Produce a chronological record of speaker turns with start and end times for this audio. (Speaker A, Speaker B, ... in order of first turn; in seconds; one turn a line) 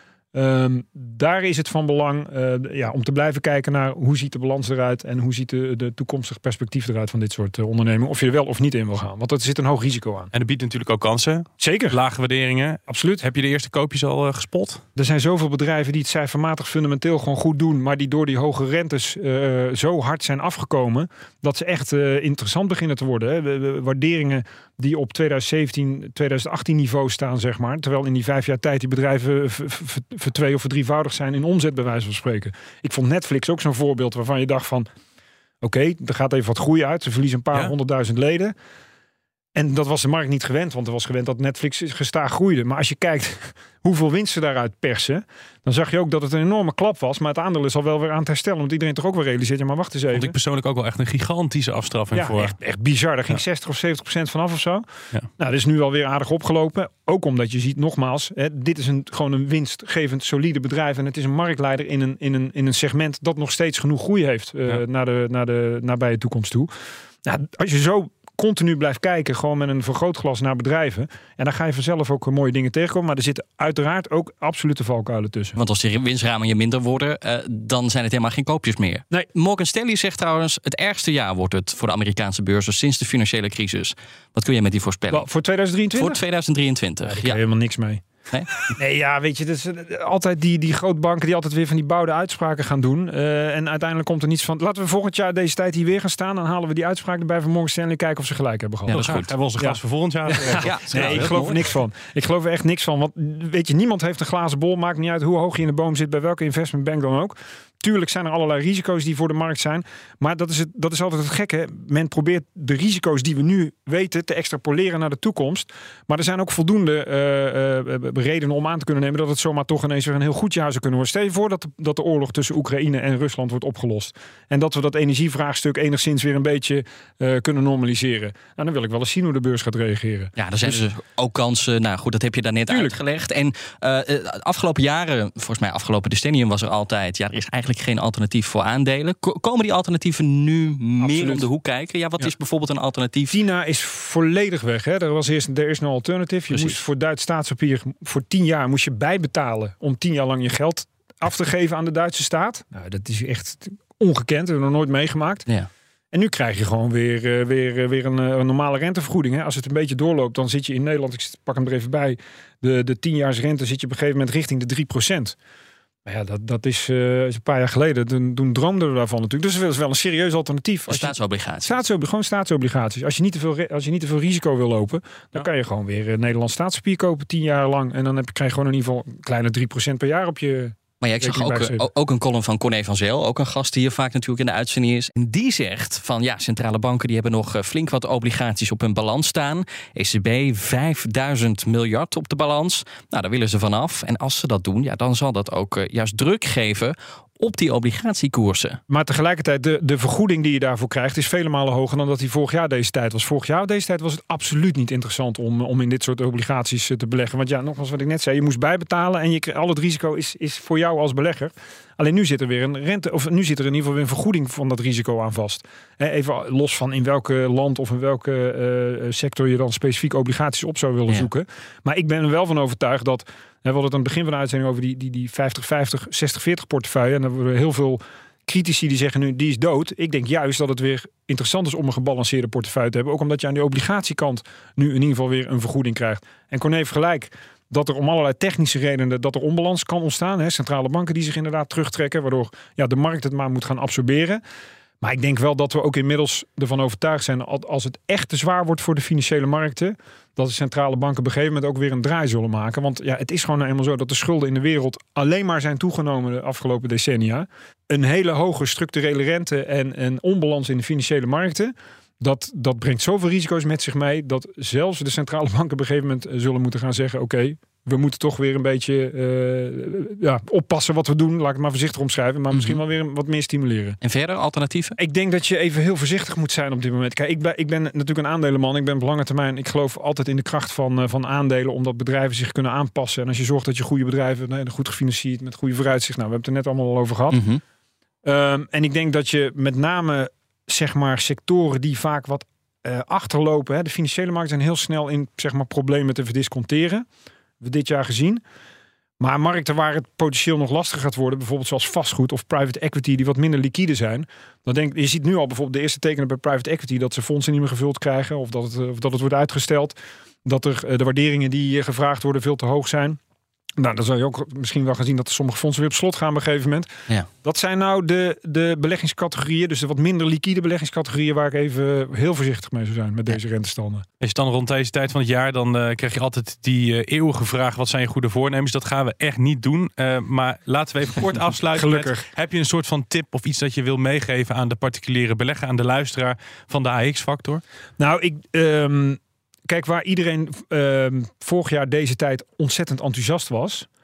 Speaker A: 0.3-10.3
Speaker B: 10.3-14.8
Speaker A: 11.6-12.0
Speaker A: 12.9-13.2
Speaker A: 15.0-34.9
Speaker A: 35.6-38.5
Speaker A: 39.5-50.4
Speaker B: 50.1-52.5
Speaker A: 52.1-54.9
Speaker A: 55.4-66.7
Speaker A: 67.2-75.6
Speaker C: 75.6-85.3
Speaker A: 85.1-86.2
Speaker C: 85.9-87.4
Speaker A: 87.0-88.0
Speaker A: 88.7-130.3
Speaker C: 98.9-99.3
Speaker B: 98.9-101.5
Speaker C: 100.6-101.6
Speaker C: 130.4-143.3
Speaker A: 132.7-133.0
Speaker A: 141.0-141.5
Speaker A: 143.3-155.5
Speaker C: 146.5-146.8
Speaker A: 156.1-165.4
Speaker A: 166.1-181.9
Speaker C: 170.9-171.8
Speaker C: 181.0-198.8
Speaker A: 198.9-244.4
Speaker A: 245.0-274.0
Speaker C: 274.0-275.0
Speaker A: 275.0-287.4
Speaker C: 287.3-287.6
Speaker A: 288.2-297.1
Speaker A: 297.6-298.4
Speaker A: 299.2-313.2
Speaker A: 313.8-316.9
Speaker A: 317.4-324.1
Speaker B: 324.2-337.6
Speaker A: 331.7-332.2
Speaker A: 338.0-343.9